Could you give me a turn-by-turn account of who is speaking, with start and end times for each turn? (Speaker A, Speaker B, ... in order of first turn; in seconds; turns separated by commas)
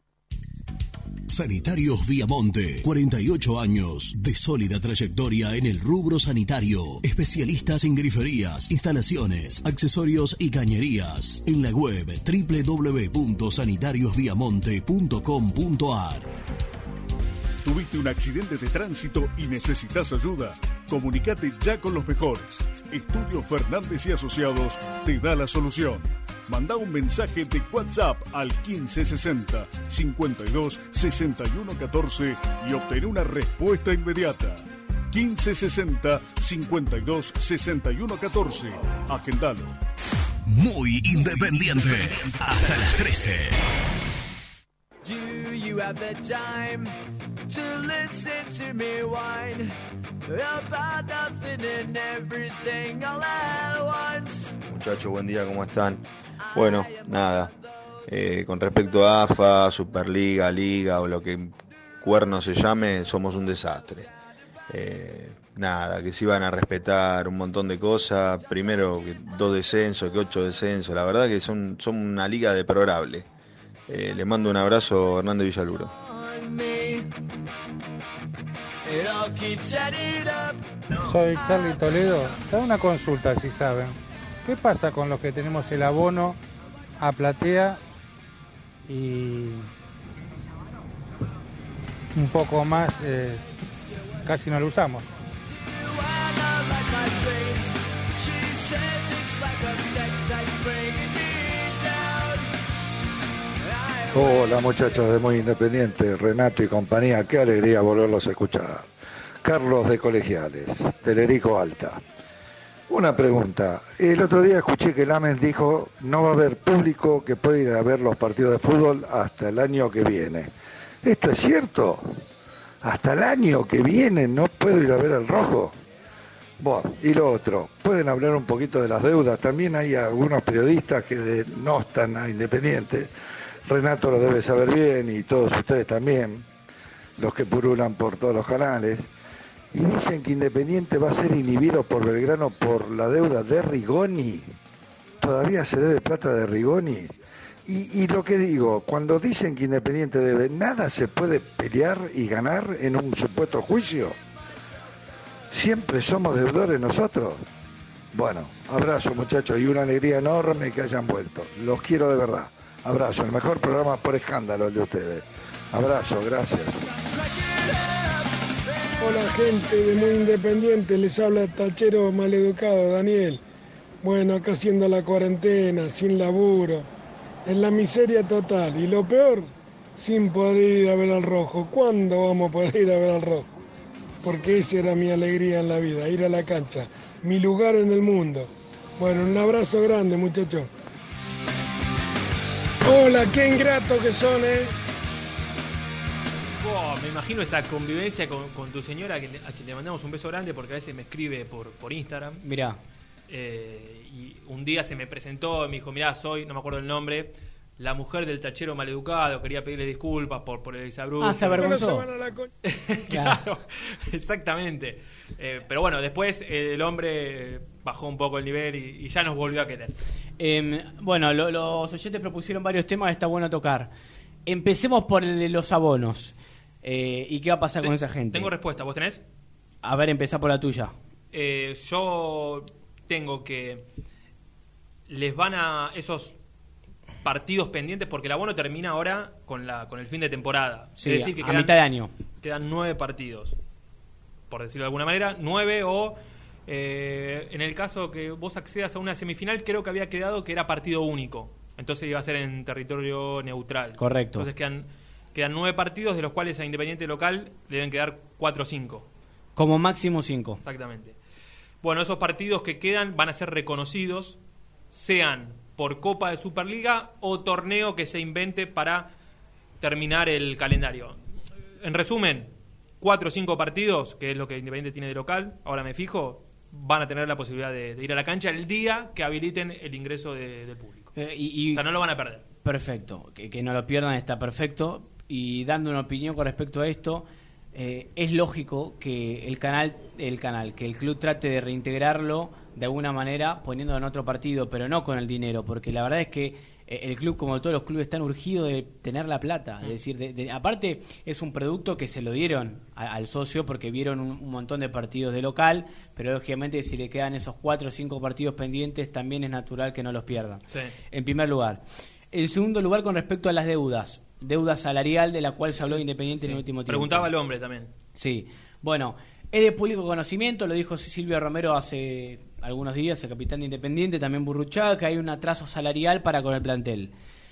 Speaker A: 1.3-16.3, Speaker B: 17.6-39.7, Speaker A: 40.5-43.6, Speaker C: 45.0-46.9, Speaker C: 47.5-49.7, Speaker C: 50.2-54.6, Speaker D: 54.7-56.0, Speaker C: 56.4-57.5, Speaker D: 56.5-57.5, Speaker D: 58.1-64.1, Speaker D: 64.7-73.2, Speaker D: 73.9-75.9, Speaker C: 76.0-77.1, Speaker C: 78.8-80.6, Speaker E: 81.1-83.9, Speaker C: 81.3-82.3, Speaker E: 84.4-86.4, Speaker E: 87.0-87.8, Speaker E: 88.9-89.6, Speaker E: 92.2-93.4, Speaker E: 94.3-95.0, Speaker C: 95.5-102.5, Speaker C: 103.6-105.0, Speaker F: 104.1-108.9, Speaker F: 109.4-112.0, Speaker F: 112.9-122.2, Speaker F: 122.8-125.8, Speaker F: 126.6-133.1, Speaker F: 133.6-136.4, Speaker F: 137.2-139.1, Speaker F: 139.7-144.5, Speaker F: 145.2-147.1, Speaker F: 147.7-154.2, Speaker F: 155.5-157.4, Speaker F: 158.1-166.8, Speaker C: 167.2-168.3, Speaker G: 169.0-173.4, Speaker C: 169.0-169.5, Speaker G: 174.0-176.9, Speaker G: 177.4-183.5, Speaker G: 184.2-190.7, Speaker G: 192.8-194.7, Speaker H: 196.5-202.4, Speaker I: 202.4-202.8, Speaker H: 203.3-211.9, Speaker I: 211.2-212.1, Speaker G: 211.6-212.5, Speaker H: 212.6-220.0, Speaker I: 213.1-213.4, Speaker I: 220.4-223.9, Speaker I: 224.4-228.5, Speaker H: 227.8-229.2, Speaker I: 229.8-230.9, Speaker H: 231.3-233.9, Speaker H: 235.1-236.3, Speaker H: 237.2-241.8, Speaker I: 241.0-242.1, Speaker H: 242.4-243.6, Speaker H: 244.5-259.1, Speaker I: 254.0-254.5, Speaker I: 259.6-260.6, Speaker H: 260.6-261.1, Speaker H: 261.8-264.4, Speaker H: 264.9-269.1, Speaker H: 269.8-271.2, Speaker H: 271.8-272.5, Speaker H: 273.0-281.1, Speaker I: 281.1-281.9, Speaker H: 281.7-282.4, Speaker I: 282.6-317.3, Speaker H: 316.4-317.9, Speaker I: 318.1-327.1